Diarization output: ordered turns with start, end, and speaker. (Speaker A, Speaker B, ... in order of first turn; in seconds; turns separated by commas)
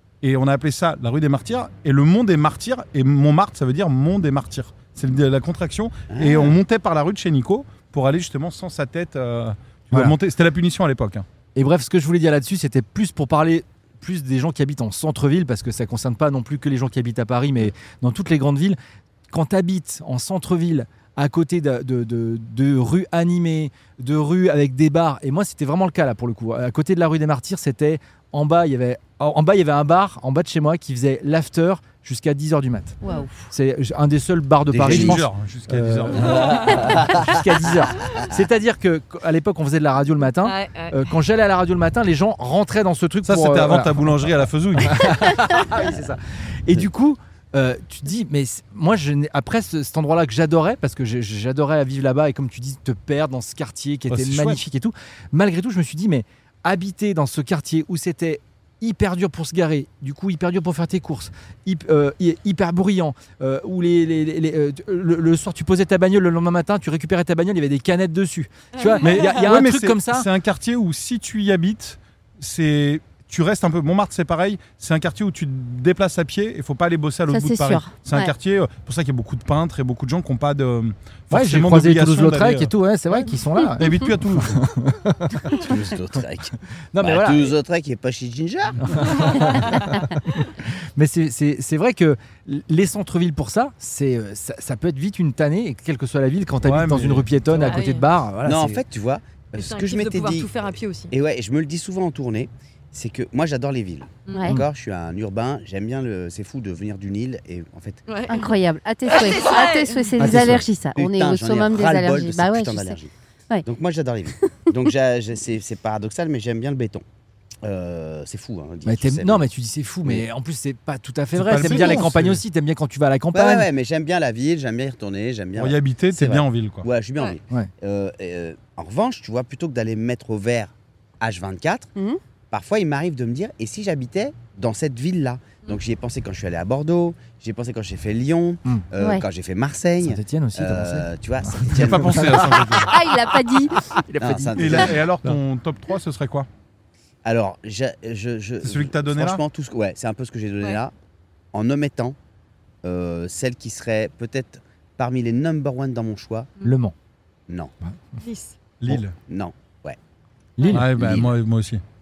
Speaker A: 0.2-11.2, Speaker B: 6.1-6.6, Speaker C: 11.5-18.8, Speaker C: 19.3-33.0, Speaker D: 33.0-33.3, Speaker C: 33.5-44.3, Speaker B: 34.7-35.2, Speaker A: 34.8-36.9, Speaker E: 36.3-36.8, Speaker B: 36.6-37.3, Speaker E: 40.4-41.1, Speaker A: 43.2-45.3, Speaker C: 44.8-70.3, Speaker A: 54.1-54.6, Speaker E: 68.8-69.4, Speaker A: 69.0-82.7, Speaker D: 77.3-78.3, Speaker C: 81.3-85.6, Speaker A: 83.8-84.7, Speaker B: 85.5-89.8, Speaker C: 86.9-87.5, Speaker C: 88.9-98.8, Speaker E: 89.1-89.8, Speaker A: 96.6-97.7, Speaker E: 97.6-98.0, Speaker B: 98.4-100.5, Speaker E: 99.5-101.1, Speaker B: 101.1-108.0, Speaker E: 108.1-108.5, Speaker D: 108.3-113.0, Speaker E: 109.1-110.1, Speaker C: 110.2-110.6, Speaker B: 110.2-113.1, Speaker B: 113.7-117.0, Speaker B: 117.6-119.4, Speaker C: 118.8-123.7, Speaker A: 121.3-122.4, Speaker B: 121.7-122.0, Speaker B: 123.3-131.9, Speaker A: 125.5-126.9, Speaker B: 132.5-142.5, Speaker D: 139.0-139.2, Speaker C: 140.0-142.9, Speaker A: 141.7-143.0, Speaker D: 142.8-143.8, Speaker C: 143.9-145.4, Speaker B: 144.2-145.0, Speaker A: 144.5-146.5, Speaker B: 147.2-150.9, Speaker A: 148.6-149.4, Speaker B: 151.5-152.2, Speaker B: 152.8-156.5, Speaker C: 156.6-156.9, Speaker E: 158.2-158.6, Speaker A: 158.8-159.2, Speaker B: 158.9-160.0, Speaker C: 160.6-160.9, Speaker A: 160.7-161.8, Speaker B: 160.7-161.3